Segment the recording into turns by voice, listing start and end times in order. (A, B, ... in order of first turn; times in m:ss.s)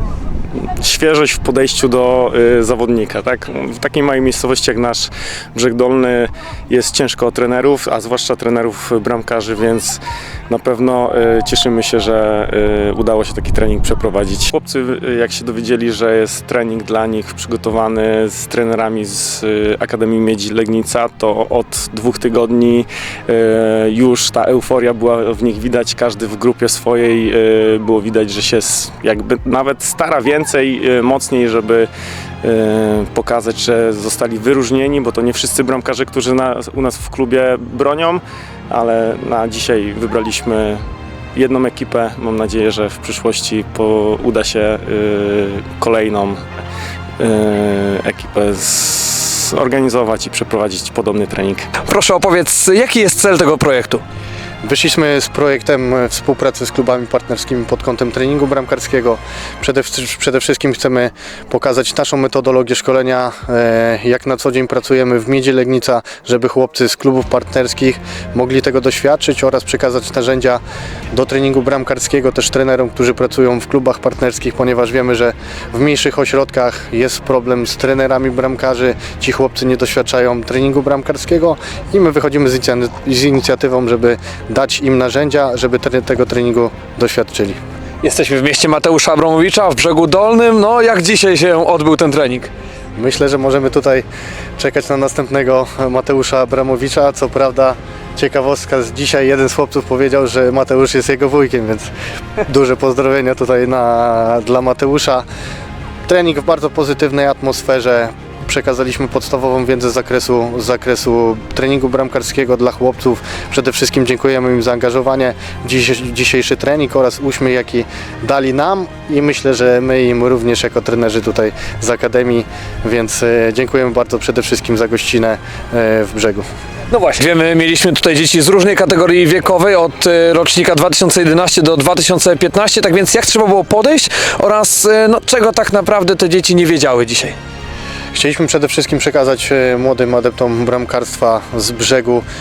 0:00.5-0:31.9 A
0:32.4-0:40.8 A
0:41.3-0:46.4 A
0:47.2-0:51.7 A
0:51.8-0:54.0 B
0:54.6-1:27.6 C
1:28.0-1:32.5 B
1:32.9-1:34.1 C
1:34.6-1:45.3 C
1:46.1-2:06.5 C
2:06.9-2:17.4 B
2:18.1-2:22.2 C